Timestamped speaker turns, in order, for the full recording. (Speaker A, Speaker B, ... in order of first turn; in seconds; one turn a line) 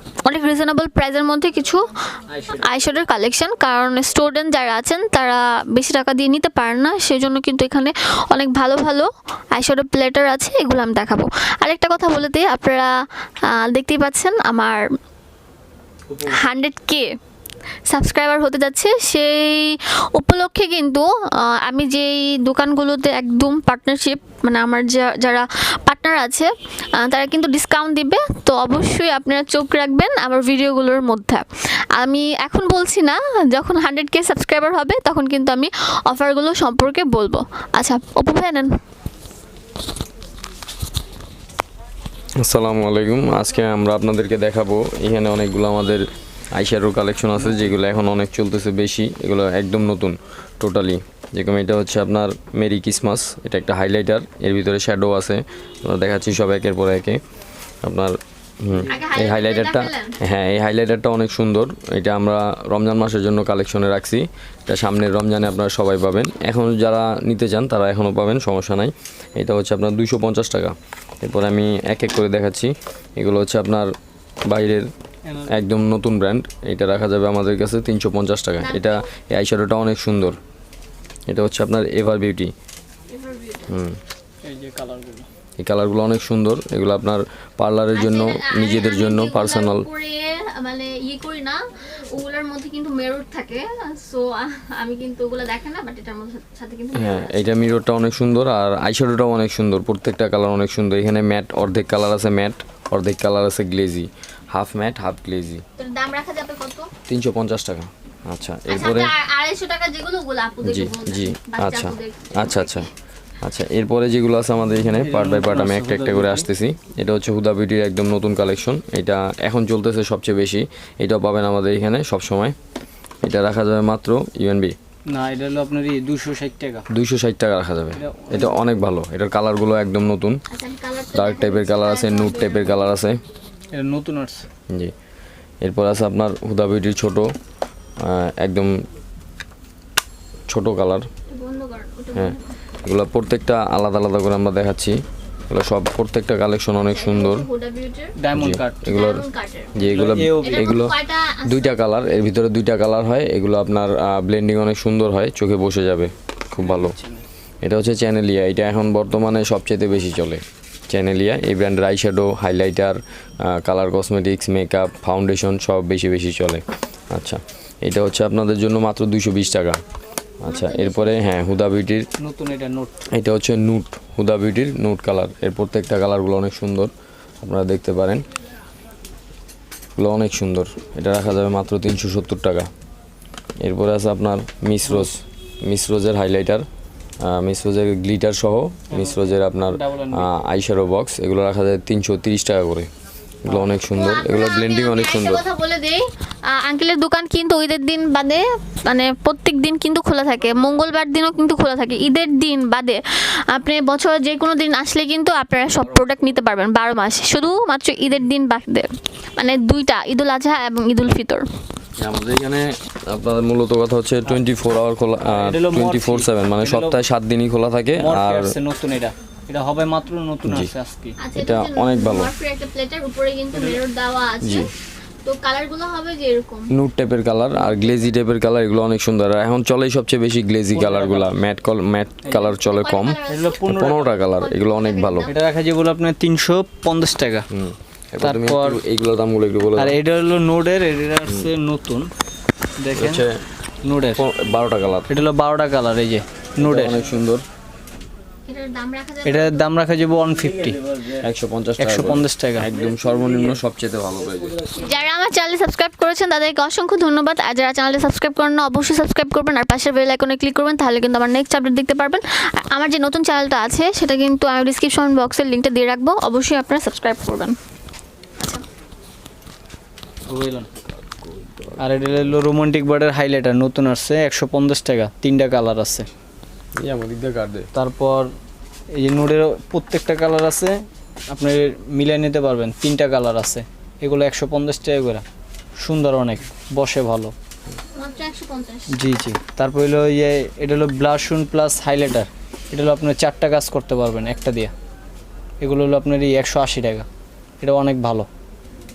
Speaker A: 0.2-1.8
Speaker B: 2.3-2.9
Speaker A: 2.6-12.9
Speaker A: 13.5-14.8
Speaker B: 16.1-16.4
Speaker A: 16.2-17.1
Speaker A: 17.9-31.4
Speaker A: 32.0-38.7
Speaker C: 42.4-57.2
Speaker B: 47.4-47.7
Speaker C: 57.9-73.9
Speaker A: 58.9-60.2
Speaker C: 74.5-74.9
Speaker B: 75.3-75.6
Speaker C: 75.5-80.4
Speaker A: 78.6-79.1
Speaker C: 81.3-82.5
Speaker A: 83.1-83.8
Speaker C: 83.7-84.0
Speaker B: 84.4-85.3
Speaker C: 85.6-89.9
Speaker A: 87.9-97.6
Speaker C: 97.0-105.6
Speaker A: 105.8-106.9
Speaker C: 107.1-109.1
Speaker A: 108.7-112.9
Speaker C: 110.6-112.9
Speaker C: 113.4-122.6
Speaker B: 114.9-116.5
Speaker C: 123.2-124.8
Speaker B: 125.1-126.9
Speaker C: 126.9-130.4
Speaker B: 128.0-128.6
Speaker A: 130.5-132.9
Speaker C: 131.1-133.2
Speaker B: 133.7-134.4
Speaker C: 135.6-137.3
Speaker C: 138.0-138.8
Speaker C: 140.5-141.1
Speaker A: 141.3-142.5
Speaker C: 142.2-147.5
Speaker A: 146.8-148.2
Speaker B: 148.2-148.9
Speaker C: 148.3-156.9
Speaker A: 148.9-149.8
Speaker B: 149.8-150.8
Speaker A: 150.4-151.8
Speaker B: 156.6-157.2
Speaker C: 157.6-169.8
Speaker C: 170.4-172.1
Speaker A: 170.5-171.2
Speaker B: 172.2-173.0
Speaker C: 173.1-176.9
Speaker C: 177.4-178.2
Speaker C: 180.0-182.7
Speaker C: 183.6-186.7
Speaker C: 187.2-192.9
Speaker B: 188.9-190.3
Speaker C: 193.4-195.5
Speaker A: 193.9-211.5
Speaker C: 212.0-218.5
Speaker B: 215.3-217.0
Speaker B: 218.0-221.2
Speaker C: 220.4-220.7
Speaker A: 221.2-224.7
Speaker C: 221.3-222.3
Speaker B: 223.5-223.8
Speaker C: 224.4-224.7
Speaker A: 225.2-226.7
Speaker C: 226.7-235.3
Speaker B: 230.7-231.3
Speaker A: 232.3-233.8
Speaker B: 233.3-234.2
Speaker A: 234.3-235.4
Speaker B: 235.3-237.5
Speaker C: 237.5-240.0
Speaker B: 238.2-238.8
Speaker B: 239.8-242.1
Speaker B: 242.8-243.3
Speaker C: 242.9-243.4
Speaker B: 243.8-244.2
Speaker C: 244.2-245.1
Speaker B: 245.1-247.1
Speaker C: 246.6-247.4
Speaker A: 248.5-249.7
Speaker B: 249.2-251.2
Speaker C: 251.2-254.6
Speaker B: 251.8-252.7
Speaker A: 254.7-267.6
Speaker B: 270.3-270.7
Speaker C: 271.0-272.4
Speaker B: 271.8-276.1
Speaker C: 276.8-277.7
Speaker B: 277.7-278.3
Speaker B: 279.0-285.2
Speaker B: 285.8-287.3
Speaker A: 287.9-289.0
Speaker B: 288.9-294.7
Speaker B: 295.6-297.1
Speaker B: 297.6-298.3